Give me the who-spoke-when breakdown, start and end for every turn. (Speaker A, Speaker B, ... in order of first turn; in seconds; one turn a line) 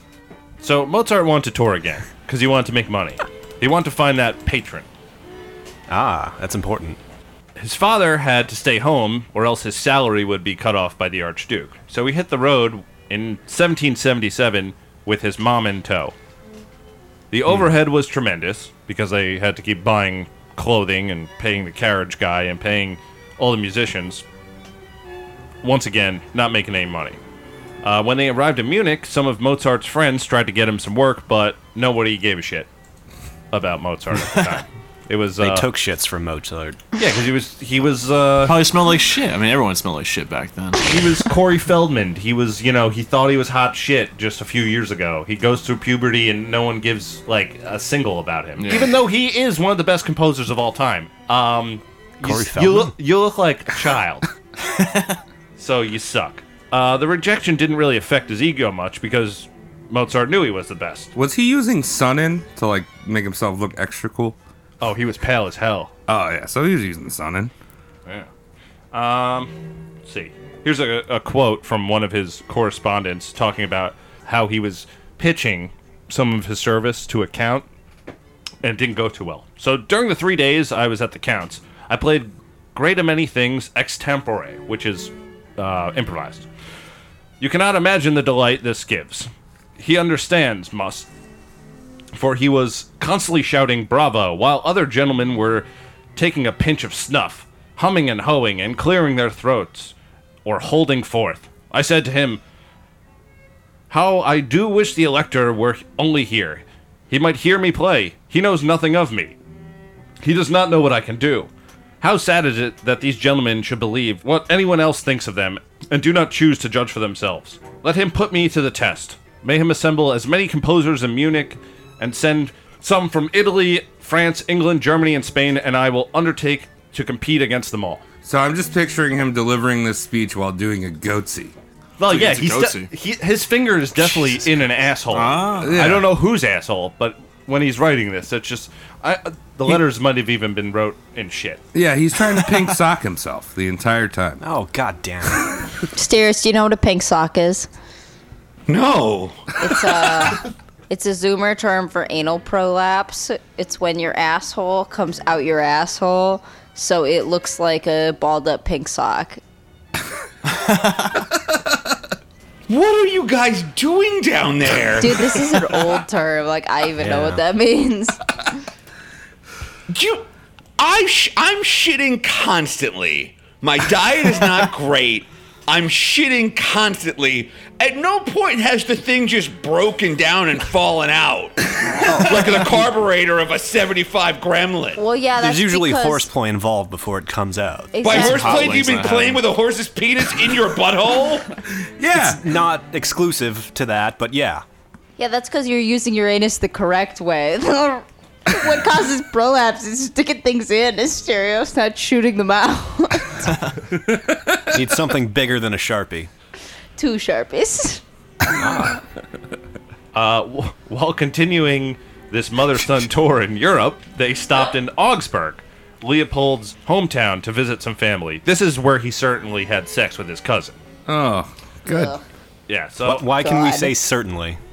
Speaker A: 0.6-4.9
Speaker B: 5.9-7.0
Speaker A: 7.6-16.1
Speaker A: 17.3-24.2
Speaker A: 25.6-27.2
Speaker A: 27.8-32.7
Speaker A: 33.5-35.7
Speaker B: 35.4-36.8
Speaker A: 37.0-38.6
Speaker C: 38.4-40.9
Speaker A: 40.8-54.3
Speaker C: 48.6-49.0
Speaker B: 52.2-53.0
Speaker C: 54.8-55.2
Speaker A: 55.6-61.1
Speaker D: 61.1-64.4
Speaker A: 64.8-65.9
Speaker D: 66.1-67.5
Speaker A: 68.9-69.5
Speaker A: 70.0-77.7
Speaker A: 78.6-86.5
Speaker A: 87.4-91.1
Speaker A: 92.1-99.9
Speaker A: 100.5-102.4
Speaker A: 103.9-109.4
Speaker A: 110.2-111.5
Speaker A: 112.0-128.0
Speaker D: 128.2-131.6
Speaker A: 132.0-141.6
Speaker C: 132.1-132.9
Speaker C: 134.0-134.5
Speaker C: 135.1-135.9
Speaker D: 135.6-136.1
Speaker D: 141.7-144.4
Speaker B: 144.4-145.7
Speaker E: 145.9-147.7
Speaker F: 148.7-149.5
Speaker E: 149.6-159.4
Speaker F: 162.7-165.4
Speaker E: 165.0-168.2
Speaker B: 167.0-167.4
Speaker F: 169.9-170.3
Speaker F: 170.8-185.0
Speaker E: 185.0-186.3
Speaker B: 185.4-188.0
Speaker E: 187.9-188.7
Speaker F: 188.0-191.5
Speaker C: 188.0-189.4
Speaker D: 192.0-192.4
Speaker B: 192.1-194.6
Speaker E: 195.2-203.7
Speaker D: 204.1-204.6
Speaker B: 204.6-206.3
Speaker E: 207.0-208.0
Speaker B: 208.6-209.0
Speaker D: 208.6-209.0
Speaker A: 210.1-220.8
Speaker D: 221.1-222.1
Speaker E: 221.9-222.2
Speaker A: 222.7-223.2
Speaker B: 223.0-224.6
Speaker E: 223.4-223.9